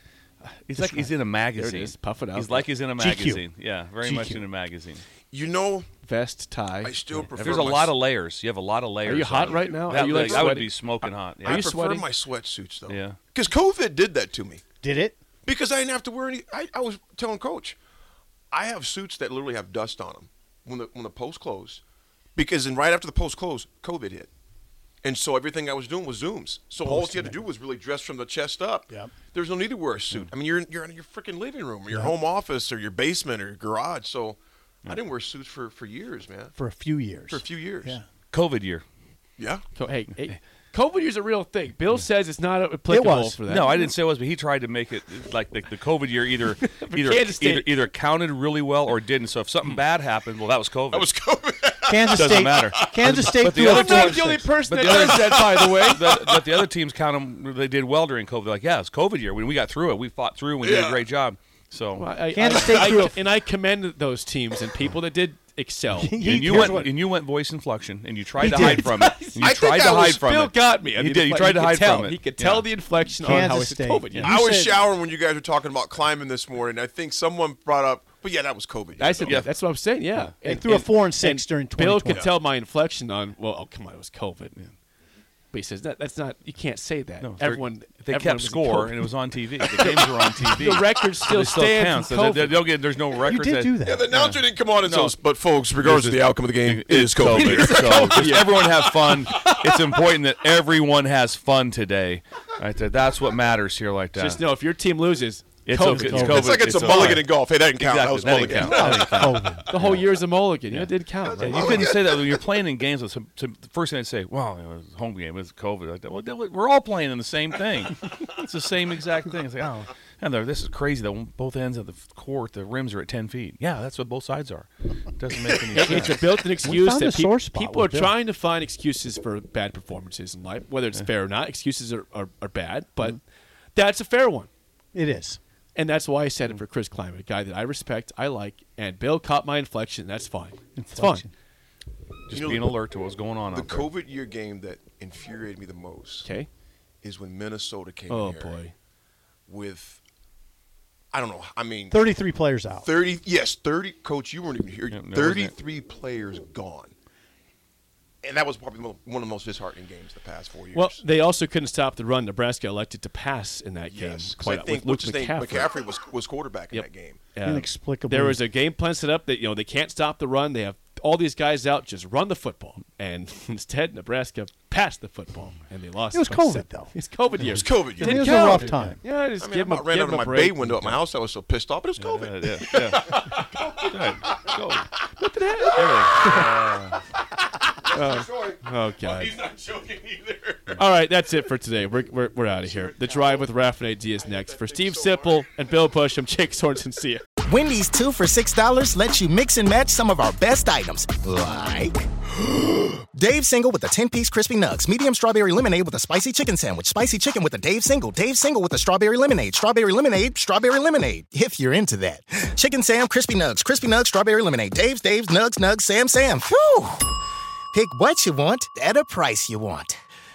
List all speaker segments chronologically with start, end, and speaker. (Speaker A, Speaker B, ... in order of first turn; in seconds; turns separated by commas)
Speaker A: 0.4-5.0, Speaker B: 1.6-2.7, Speaker C: 3.0-3.4, Speaker C: 4.0-4.4, Speaker D: 5.3-5.9, Speaker B: 6.0-7.7, Speaker D: 6.8-8.0, Speaker A: 7.4-11.7, Speaker B: 9.1-10.8, Speaker D: 9.7-10.5, Speaker D: 11.4-14.6, Speaker B: 11.4-12.1, Speaker A: 12.9-13.2, Speaker C: 14.8-15.2, Speaker D: 15.4-17.8, Speaker D: 18.5-21.8, Speaker D: 22.4-24.3, Speaker D: 25.0-36.5, Speaker C: 26.8-27.4, Speaker C: 28.9-29.2, Speaker C: 36.6-38.0, Speaker D: 37.3-38.0, Speaker A: 38.3-38.8, Speaker D: 39.4-39.6, Speaker B: 39.7-43.9, Speaker C: 42.9-43.4, Speaker A: 43.5-51.1, Speaker B: 46.6-47.9, Speaker D: 50.9-53.1, Speaker C: 51.9-54.5, Speaker A: 52.1-62.1, Speaker B: 53.5-56.0, Speaker D: 54.8-56.6, Speaker D: 60.6-61.0, Speaker B: 62.0-66.8, Speaker C: 62.3-63.2, Speaker C: 65.9-67.0, Speaker A: 66.2-72.7, Speaker C: 68.4-68.8, Speaker B: 68.4-69.5, Speaker D: 69.4-70.2, Speaker B: 70.0-74.4, Speaker C: 73.1-74.8, Speaker D: 74.2-79.4, Speaker B: 79.0-84.6, Speaker A: 79.2-79.5, Speaker C: 80.4-82.3, Speaker D: 82.1-82.3, Speaker B: 85.5-89.0, Speaker A: 87.2-95.2, Speaker B: 89.6-92.7, Speaker C: 93.2-94.0, Speaker D: 93.8-98.4, Speaker A: 95.8-104.4, Speaker B: 97.3-99.8, Speaker B: 104.2-106.5, Speaker A: 105.7-110.0, Speaker D: 106.1-109.6, Speaker C: 106.2-107.2, Speaker C: 108.6-109.7, Speaker B: 108.8-111.8, Speaker A: 110.7-126.7, Speaker D: 111.3-112.5, Speaker B: 125.7-133.2, Speaker C: 126.6-128.1, Speaker B: 133.8-134.5, Speaker C: 134.9-135.4, Speaker B: 135.8-141.3, Speaker C: 140.8-141.3, Speaker A: 142.3-143.9, Speaker D: 142.3-142.8, Speaker D: 143.5-146.3, Speaker B: 146.2-146.5, Speaker D: 147.0-148.7, Speaker B: 148.1-148.7, Speaker D: 149.5-150.0, Speaker D: 151.1-152.1, Speaker C: 151.9-152.9, Speaker D: 152.8-156.9, Speaker A: 154.9-155.5, Speaker D: 158.2-161.0, Speaker B: 160.7-165.8, Speaker D: 163.9-167.2, Speaker B: 166.7-181.0, Speaker C: 167.4-168.4, Speaker C: 176.1-176.9, Speaker D: 177.5-178.6, Speaker C: 178.0-179.0, Speaker D: 179.4-184.6, Speaker A: 182.0-184.9, Speaker B: 183.0-183.4, Speaker B: 185.2-186.4, Speaker A: 185.8-187.0, Speaker D: 186.0-186.4, Speaker B: 187.9-189.4, Speaker D: 187.9-190.8, Speaker B: 190.8-197.2, Speaker D: 192.7-193.5, Speaker D: 194.3-195.5, Speaker E: 197.5-202.1, Speaker E: 202.8-217.1, Speaker E: 217.7-219.9